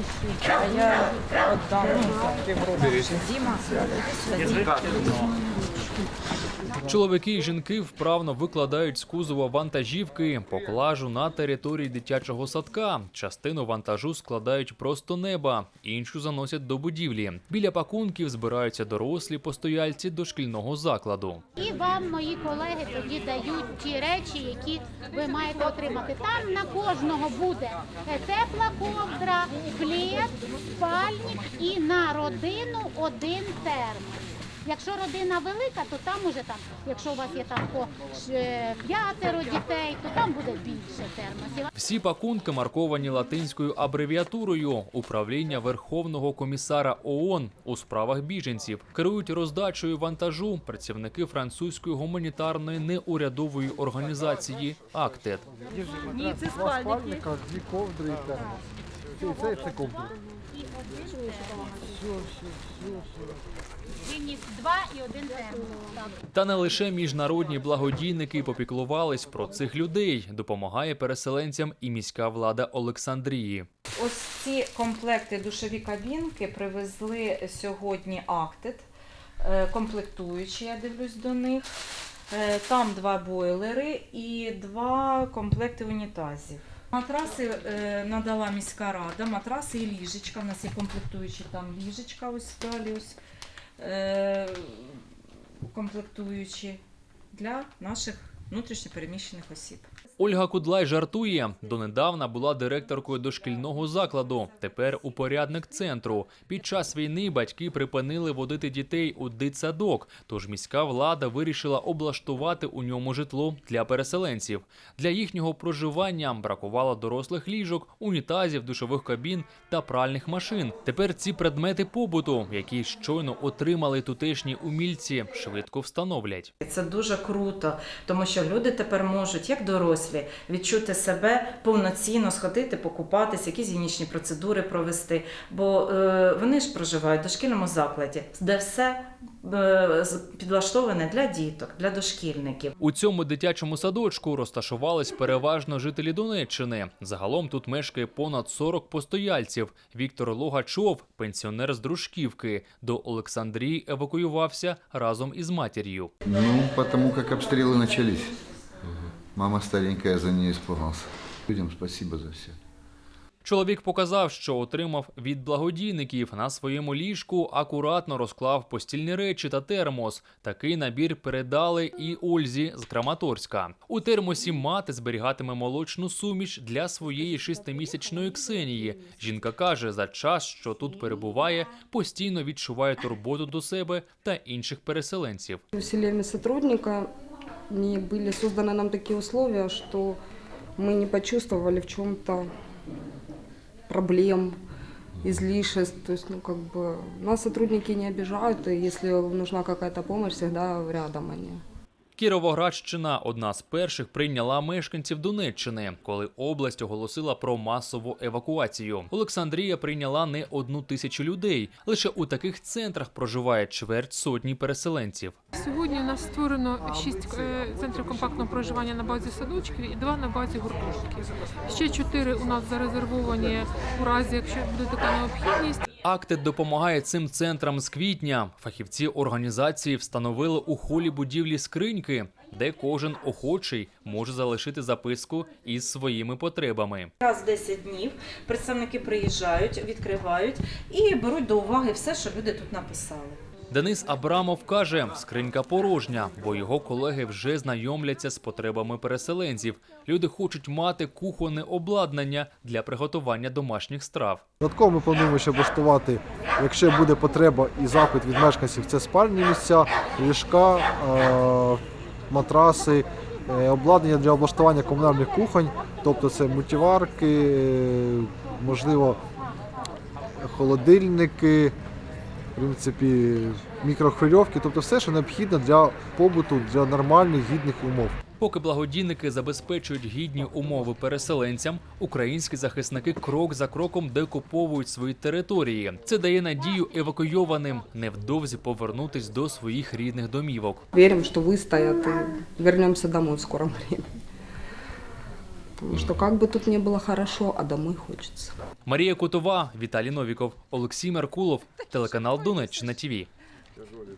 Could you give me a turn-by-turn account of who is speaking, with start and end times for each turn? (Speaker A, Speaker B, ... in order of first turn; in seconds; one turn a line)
Speaker A: 0.5-5.2
Speaker B: 6.8-21.4
Speaker C: 21.6-41.7
Speaker B: 41.7-55.4
Speaker D: 55.7-58.6
Speaker C: 56.2-57.0
Speaker D: 59.2-60.1
Speaker C: 59.8-62.0
Speaker C: 64.0-66.1
Speaker B: 66.3-73.7
Speaker A: 74.0-78.9
Speaker A: 79.4-81.7
Speaker A: 82.3-93.2
Speaker A: 93.8-95.0
Speaker A: 95.6-96.8
Speaker A: 97.3-99.9
Speaker B: 100.2-126.5
Speaker A: 126.6-142.7
Speaker B: 142.8-156.1
Speaker E: 156.2-162.6
Speaker A: 157.4-157.9
Speaker B: 163.4-185.6
Speaker F: 185.7-187.1
Speaker F: 187.7-190.2
Speaker F: 190.8-192.4
Speaker F: 193.9-194.6
Speaker F: 195.2-201.6
Speaker B: 202.1-215.4
Speaker G: 215.5-225.8
Speaker B: 226.0-237.1
Speaker A: 237.2-243.4
Speaker B: 243.7-254.4
Speaker D: 254.6-269.2
Speaker D: 270.4-271.7
Speaker D: 272.5-278.2
Speaker B: 278.4-290.8
Speaker F: 290.9-294.1
Speaker F: 295.8-298.5
Speaker B: 298.9-303.3